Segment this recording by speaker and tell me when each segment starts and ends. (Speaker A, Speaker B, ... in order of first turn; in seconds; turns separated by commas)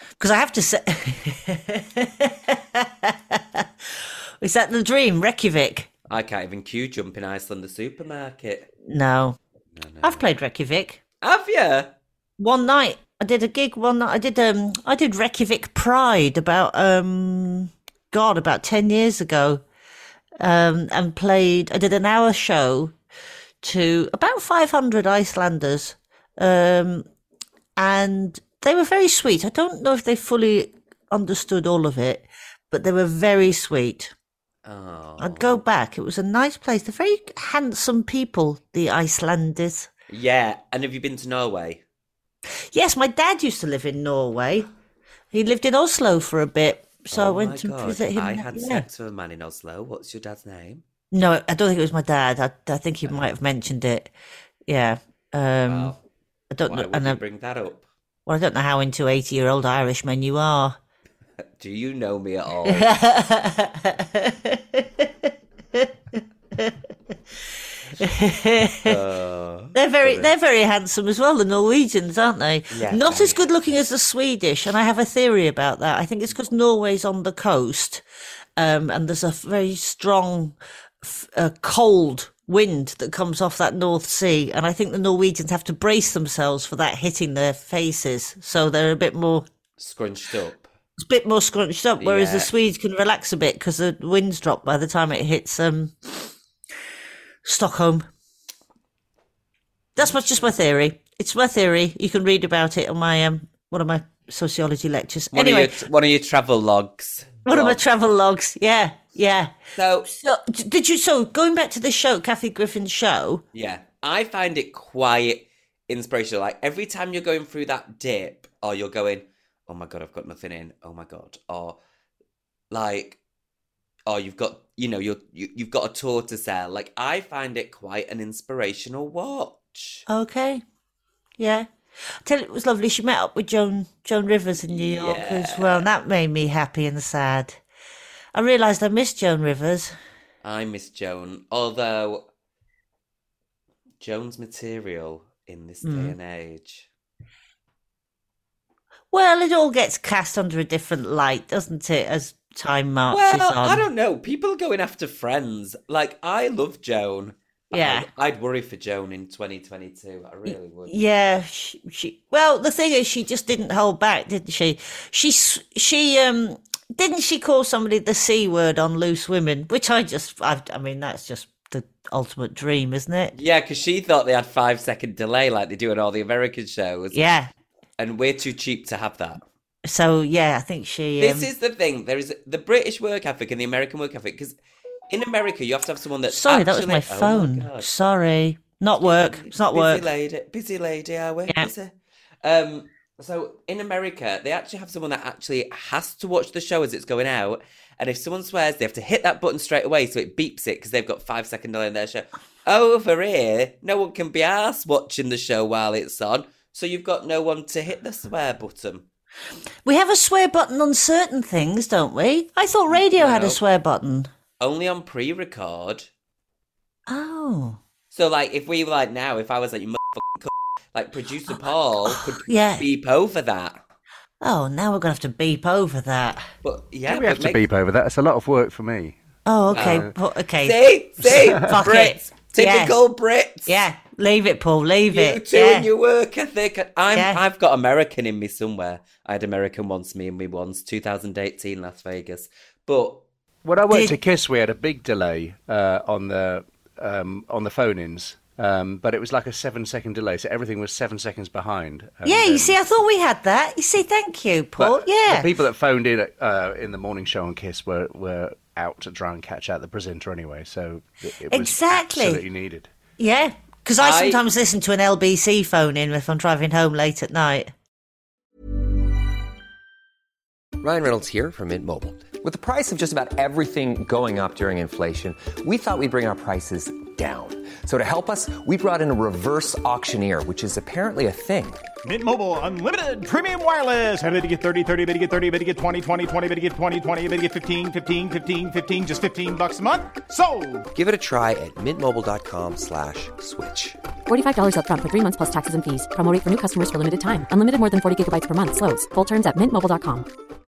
Speaker A: 0.2-5.9, Speaker B: 6.1-8.7, Speaker A: 8.8-9.4, Speaker B: 9.8-10.2, Speaker A: 10.0-11.0, Speaker B: 11.2-11.9, Speaker A: 12.4-19.6, Speaker A: 20.4-22.9, Speaker A: 23.6-27.1, Speaker A: 27.8-34.1, Speaker B: 34.6-35.6, Speaker A: 35.2-39.9, Speaker B: 40.1-41.8, Speaker A: 42.7-44.7, Speaker A: 45.3-48.8, Speaker B: 47.1-50.8, Speaker A: 51.1-54.1, Speaker A: 54.7-55.9, Speaker B: 55.6-56.0, Speaker A: 56.5-57.2, Speaker B: 56.6-57.9, Speaker A: 58.2-60.8, Speaker B: 61.6-63.0, Speaker A: 62.6-66.8, Speaker A: 68.0-69.0, Speaker B: 68.8-70.3, Speaker A: 69.7-78.0, Speaker B: 72.7-73.4, Speaker A: 78.6-89.5, Speaker B: 89.8-90.7, Speaker A: 91.0-96.3, Speaker B: 92.0-92.5, Speaker A: 97.4-98.1, Speaker A: 100.0-105.8, Speaker B: 105.3-107.8, Speaker A: 107.5-109.5, Speaker B: 109.7-110.1, Speaker A: 110.1-113.4, Speaker B: 113.5-121.8, Speaker B: 122.7-123.2, Speaker B: 124.1-130.1, Speaker A: 130.1-130.6, Speaker A: 131.4-137.6, Speaker B: 134.7-135.9, Speaker A: 138.3-139.9, Speaker B: 140.4-142.3, Speaker B: 144.0-146.9, Speaker A: 145.8-146.1, Speaker A: 149.1-153.8, Speaker B: 153.1-160.9, Speaker A: 157.7-158.1, Speaker A: 160.5-173.3, Speaker B: 173.3-177.2, Speaker A: 177.1-177.5, Speaker B: 178.0-179.4, Speaker A: 179.8-181.5, Speaker B: 181.2-184.5, Speaker B: 185.1-187.9, Speaker A: 186.3-190.0, Speaker B: 189.0-191.9, Speaker B: 192.4-209.1, Speaker A: 209.8-214.3, Speaker B: 212.9-213.6, Speaker B: 214.6-216.1, Speaker A: 217.1-217.8, Speaker B: 218.1-223.8, Speaker A: 222.0-222.9, Speaker A: 224.4-226.5, Speaker B: 226.6-227.6, Speaker C: 227.1-229.2, Speaker A: 229.4-233.0, Speaker B: 229.7-230.1, Speaker C: 229.7-230.1, Speaker B: 230.6-233.8, Speaker C: 231.2-231.7, Speaker A: 233.7-235.9, Speaker B: 235.1-243.2, Speaker A: 237.1-237.4, Speaker C: 243.6-252.8, Speaker A: 243.9-244.2, Speaker A: 252.2-255.5, Speaker C: 254.8-262.9, Speaker A: 261.5-262.4, Speaker A: 263.2-267.7, Speaker B: 264.0-264.4, Speaker D: 270.8-281.8, Speaker E: 282.0-290.9, Speaker D: 290.9-294.0, Speaker F: 294.3-300.3